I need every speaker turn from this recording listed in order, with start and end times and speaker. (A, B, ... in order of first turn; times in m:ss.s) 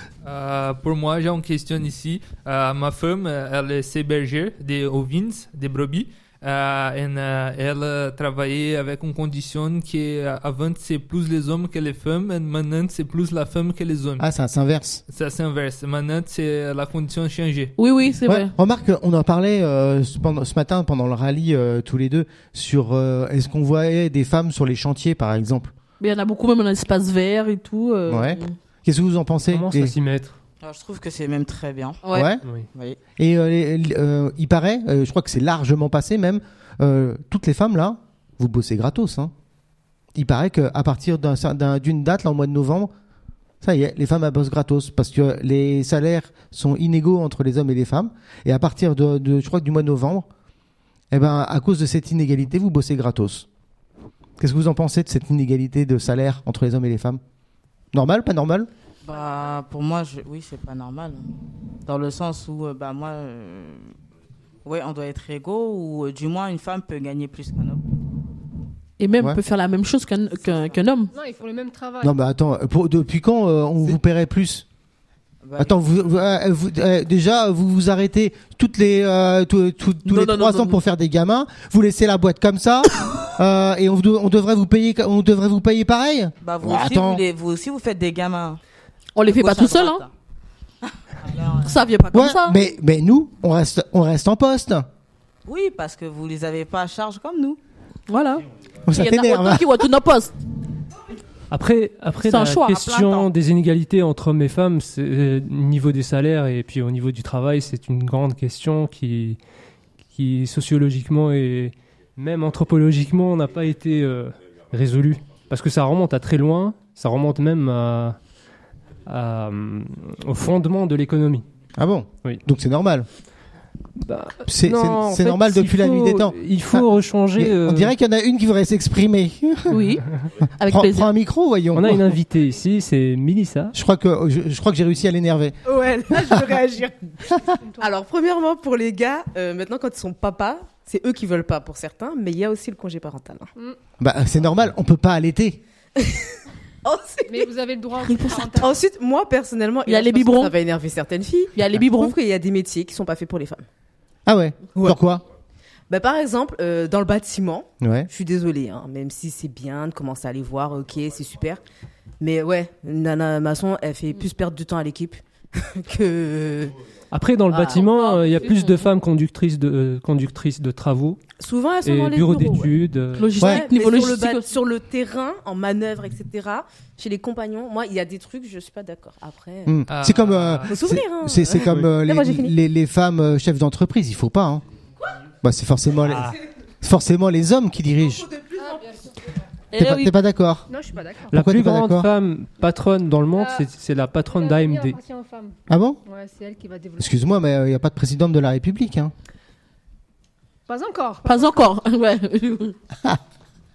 0:00.2-0:14.2 A
0:14.2-0:15.0 B
0:15.1-0:17.7 A
0:17.8-0:18.5 C
0:18.2-0:25.7 B
0:26.0-0:28.6 C
0:28.1-0:29.9 B
0:29.5-0:30.4 D
0:30.6-0:32.0 E
0:32.0-0:32.3 C
0:32.1-0:32.4 B
0:32.4-0:32.7 D
0:33.2-0:39.3 B
0:40.1-0:42.9 B
0:43.6-0:50.3 B
0:51.1-0:53.5 B
0:54.4-0:57.2 B
0:57.9-0:58.7 B
0:59.0-1:01.3 E
1:01.8-1:03.9 E
1:04.6-1:07.8 E
1:09.0-1:11.1 C
1:10.5-1:10.8 E
1:11.1-1:12.1 F
1:12.0-1:14.6 B
1:15.4-1:15.8 E
1:15.6-1:27.2 B
1:20.0-1:20.8 C
1:26.4-1:28.6 E
1:29.2-1:30.0 C
1:29.2-1:30.1 E
1:31.1-1:31.8 E
1:31.6-1:32.6 C
1:32.1-1:34.9 B
1:35.4-1:37.6 E
1:38.1-1:40.3 C
1:38.8-1:39.7 B
1:41.5-1:49.4 D
1:42.2-1:42.8 C
1:42.7-1:43.3 E
1:50.1-1:58.2 D
1:59.0-2:01.4 D
2:01.8-2:03.1 B
2:04.0-2:07.9 D
2:04.4-2:06.8 B
2:07.4-2:09.8 B
2:09.7-2:11.1 C
2:10.6-2:12.1 B
2:11.7-2:13.7 D
2:13.7-2:15.6 B
2:15.6-2:23.5 G
2:16.1-2:16.4 B
2:17.4-2:17.9 F
2:24.0-2:25.6 B
2:26.0-2:26.2 G
2:26.8-2:27.5 G
2:27.3-2:28.8 F
2:28.1-2:28.4 C
2:28.5-2:33.7 G
2:29.8-2:30.5 C
2:31.5-2:32.1 C
2:34.2-2:35.2 B
2:34.7-2:35.0 G
2:35.9-2:41.6 G
2:37.8-2:38.1 B
2:42.2-2:46.8 G
2:47.1-2:51.2 D
2:47.5-2:48.4 G
2:51.4-2:52.8 G
2:51.8-2:53.3 D
2:53.2-2:54.5 C
2:53.4-2:53.6 B
2:53.4-2:59.8 G
2:59.6-3:04.6 B
2:59.9-3:00.7 A
3:00.7-3:02.5 G
3:05.4-3:08.3 B
3:08.5-3:09.2 F
3:09.7-3:10.1 C
3:09.7-3:10.7 B
3:10.7-3:11.3 F
3:11.3-3:12.1 B
3:11.3-3:15.0 D
3:13.3-3:13.7 F
3:14.2-3:17.1 F
3:15.7-3:16.0 B
3:17.0-3:19.1 B
3:20.7-3:21.6 F
3:21.2-3:22.8 C